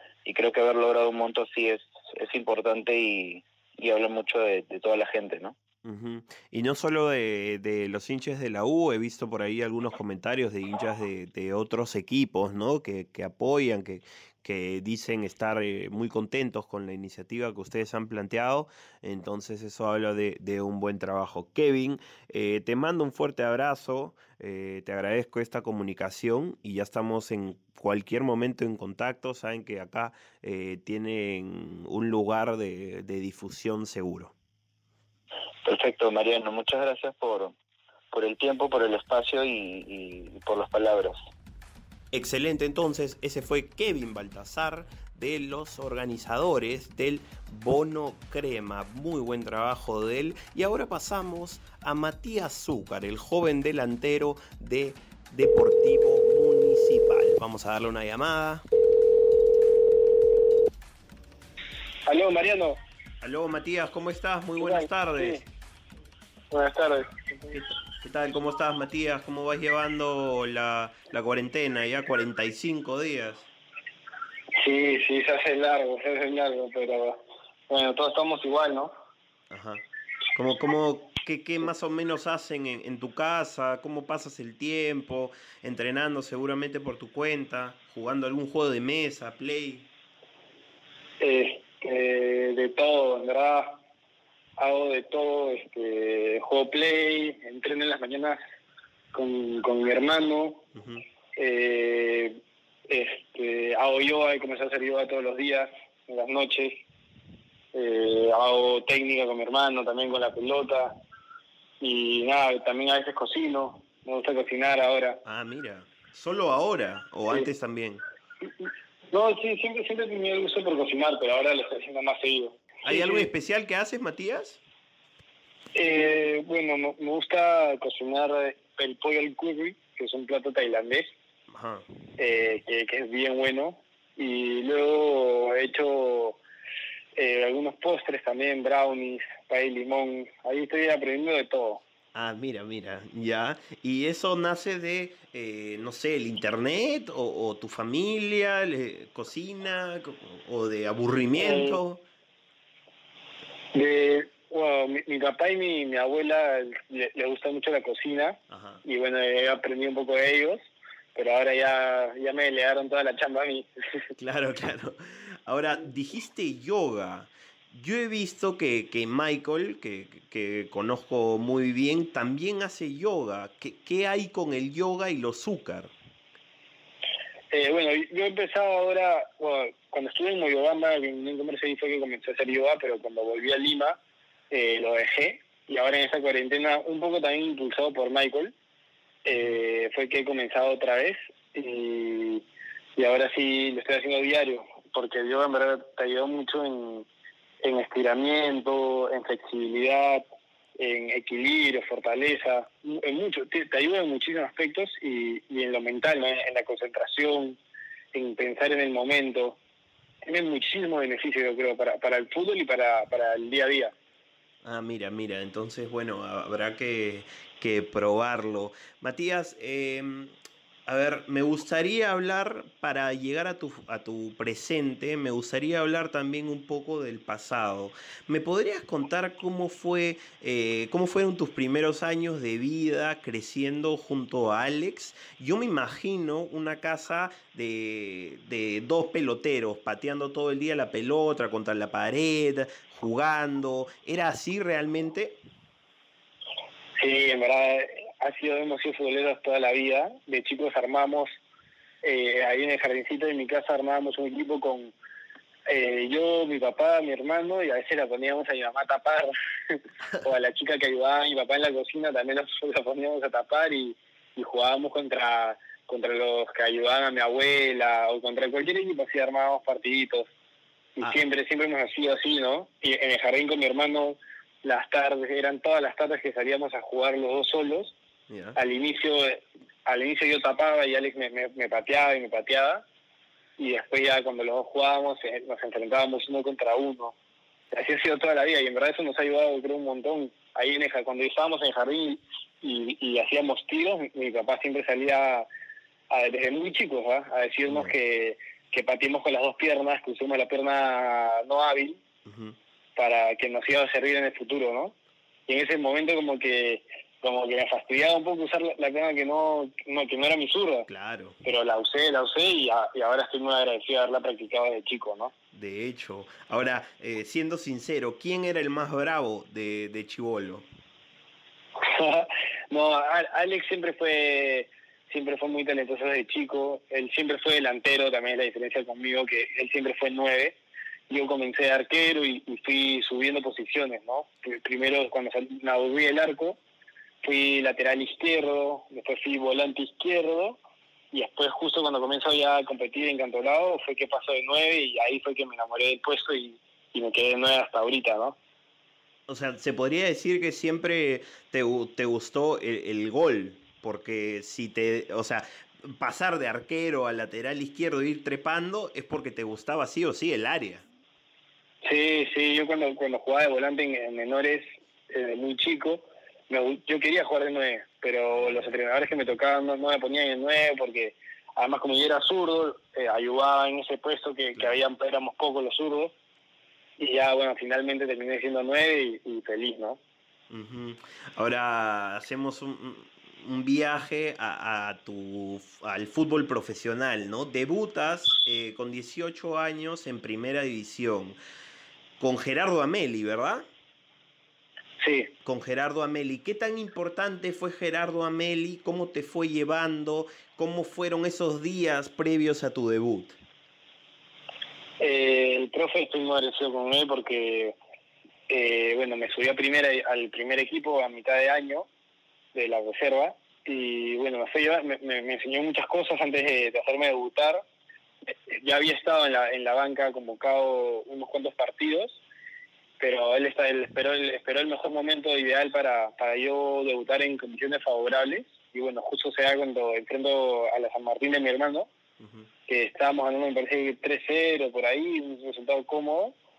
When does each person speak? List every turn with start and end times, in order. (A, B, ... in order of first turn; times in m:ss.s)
0:00.2-0:05.6 A
0:05.8-0:34.3 B
0:35.6-0:37.5 A
0:38.1-0:41.2 A
0:42.1-0:58.6 B
1:02.1-1:02.8 C
1:03.2-1:05.4 B
1:04.6-1:05.4 C
1:06.5-1:07.5 C
1:07.5-1:13.5 B
1:14.6-1:18.9 C
1:19.5-1:19.8 B
1:20.4-1:29.9 B
1:31.2-1:33.8 C
1:34.6-1:38.4 C
1:39.1-1:40.6 C
1:40.8-1:41.0 B
1:41.4-1:42.4 C
1:42.9-1:46.8 C
1:47.7-1:51.0 C
1:51.8-1:55.2 C
1:55.2-1:58.0 B
1:58.6-2:03.3 C
2:02.8-2:04.6 B
2:05.8-2:11.1 C
2:11.5-2:11.8 B
2:12.2-2:16.4 C
2:17.2-2:21.8 C
2:22.1-2:32.0 B
2:31.4-2:31.8 C
2:33.7-2:44.1 C
2:38.5-2:38.8 B
2:44.2-2:55.9 B
2:57.5-3:04.0 C
3:04.5-3:08.5 C
3:09.2-3:12.4 C
3:13.0-3:17.1 C
3:17.6-3:20.2 C
3:20.8-3:27.6 C
3:28.1-3:29.6 C
3:30.2-3:33.9 C
3:34.6-3:40.4 B
3:40.9-4:05.4 B
4:07.0-4:11.3 C
4:12.0-4:14.9 C
4:15.7-4:30.3 C
4:31.0-4:38.0 C
4:38.3-4:38.6 B
4:38.6-4:42.8 C
4:43.6-4:47.2 C
4:47.7-4:55.5 C
4:56.1-5:02.0 C
4:57.7-4:57.9 B
5:02.3-5:02.6 B
5:03.0-5:05.0 C
5:05.5-5:10.9 C
5:10.9-5:11.4 B
5:11.4-5:15.3 C
5:15.5-5:20.7 B
5:21.8-5:30.6 C
5:31.1-5:36.6 C
5:37.2-5:40.6 C
5:41.1-5:48.4 C
5:49.3-6:00.8 B
6:01.8-6:16.1 C
6:08.3-6:08.7 B
6:17.0-6:20.0 C
6:20.5-6:31.4 B
6:32.2-6:33.7 B
6:35.0-6:35.3 C
6:35.4-6:43.4 B
6:45.0-6:47.8 C
6:48.5-6:51.9 C
6:52.5-6:57.6 C
6:58.5-7:02.2 C
7:03.0-7:11.9 C
7:12.2-7:12.5 B
7:12.7-7:16.4 C